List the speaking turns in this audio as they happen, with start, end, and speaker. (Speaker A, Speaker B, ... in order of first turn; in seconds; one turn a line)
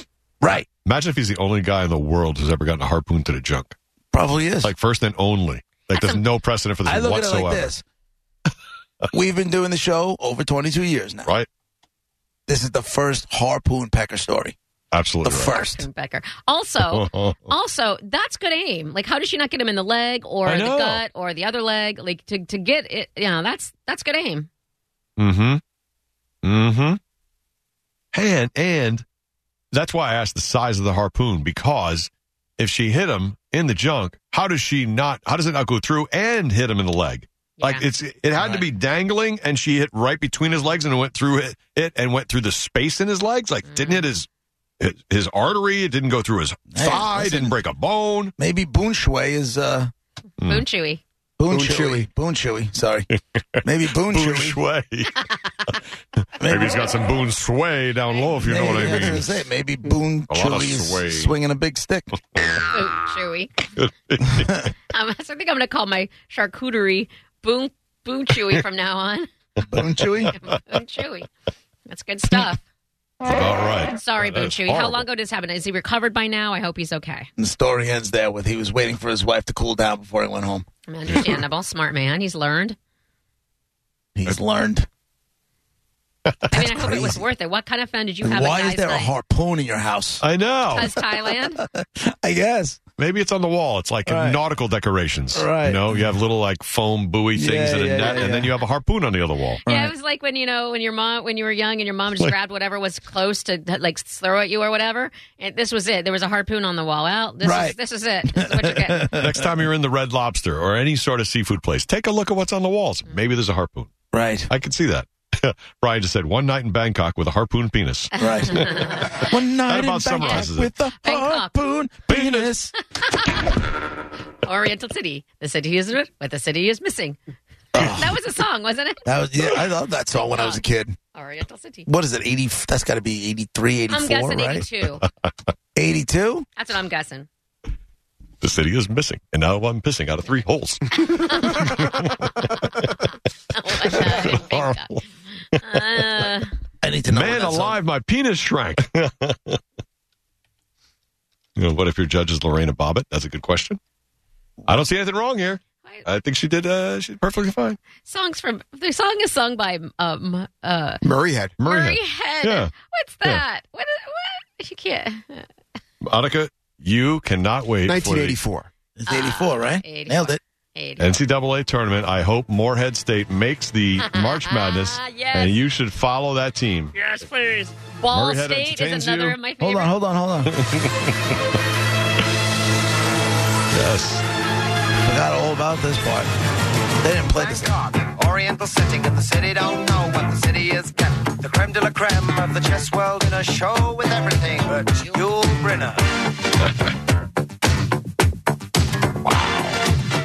Speaker A: 0.4-0.7
Speaker B: 0.5-3.7
Speaker A: 4.1-4.7
Speaker B: 4.6-7.7
Speaker C: 5.9-6.2
Speaker A: 6.8-7.8
Speaker A: 9.1-11.3
Speaker A: 12.5-14.6
Speaker B: 14.9-15.6
Speaker A: 15.2-15.9
Speaker C: 15.5-24.5
Speaker B: 16.8-17.5
Speaker B: 20.4-21.0
Speaker B: 25.2-25.6
Speaker B: 26.4-27.0
Speaker B: 28.1-29.0
Speaker B: 29.7-44.3
Speaker C: 37.6-37.8
Speaker C: 38.4-38.6
Speaker C: 43.7-44.1
Speaker B: 44.8-48.3
Speaker A: 46.7-47.5
Speaker A: 48.4-49.9
Speaker B: 50.4-50.6
Speaker C: 50.4-51.0
Speaker A: 51.4-53.1
Speaker D: 51.5-52.0
Speaker B: 53.1-55.1
Speaker A: 53.6-54.6
Speaker A: 56.4-56.8
Speaker B: 56.4-59.4
Speaker A: 58.4-62.1
Speaker B: 60.3-61.4
Speaker C: 62.5-63.7
Speaker B: 63.8-64.7
Speaker C: 64.9-69.3
Speaker A: 69.7-70.4
Speaker C: 70.4-71.3
Speaker C: 71.9-72.6
Speaker B: 73.3-75.0
Speaker C: 73.9-77.3
Speaker A: 77.4-80.6
Speaker C: 80.8-82.8
Speaker A: 84.1-84.9
Speaker B: 86.2-86.6
Speaker A: 86.5-87.2
Speaker C: 86.5-89.1
Speaker A: 88.2-90.2
Speaker B: 90.2-90.9
Speaker C: 90.7-91.6
Speaker A: 90.8-92.8
Speaker B: 93.0-99.6
Speaker A: 94.0-94.4
Speaker A: 95.3-96.2
Speaker A: 97.3-98.5
Speaker C: 99.6-109.2
Speaker A: 99.7-99.9
Speaker A: 107.4-107.8
Speaker A: 108.3-109.6
Speaker B: 109.1-113.9
Speaker A: 114.1-114.5
Speaker B: 114.5-120.7
Speaker C: 118.2-119.3
Speaker A: 118.2-122.7
Speaker C: 121.0-121.6
Speaker B: 122.1-122.6
Speaker C: 123.0-123.5
Speaker C: 124.4-127.2
Speaker A: 127.7-128.2
Speaker C: 127.8-129.0
Speaker A: 129.0-131.0
Speaker C: 130.3-130.6
Speaker C: 131.1-131.9
Speaker A: 131.9-134.7
Speaker C: 133.9-135.0
Speaker A: 135.7-136.4
Speaker C: 136.6-137.3
Speaker B: 138.4-143.1
Speaker C: 141.1-141.7
Speaker C: 143.5-144.9
Speaker B: 143.9-146.2
Speaker C: 145.6-146.5
Speaker A: 146.8-147.8
Speaker B: 147.1-149.6
Speaker B: 151.6-153.8
Speaker B: 154.7-157.8
Speaker C: 158.0-161.0
Speaker D: 161.0-161.5
Speaker B: 161.6-162.7
Speaker C: 161.6-165.5
Speaker B: 166.0-168.4
Speaker D: 167.8-168.7
Speaker A: 168.9-170.4
Speaker C: 169.1-171.1
Speaker B: 171.0-176.9
Speaker C: 174.1-175.6
Speaker C: 177.0-179.9
Speaker B: 178.1-179.4
Speaker A: 179.6-180.5
Speaker B: 180.5-181.4
Speaker B: 183.7-184.2
Speaker A: 185.0-186.3
Speaker A: 187.0-187.7
Speaker E: 187.3-196.1
Speaker B: 196.6-196.9
Speaker B: 199.2-199.7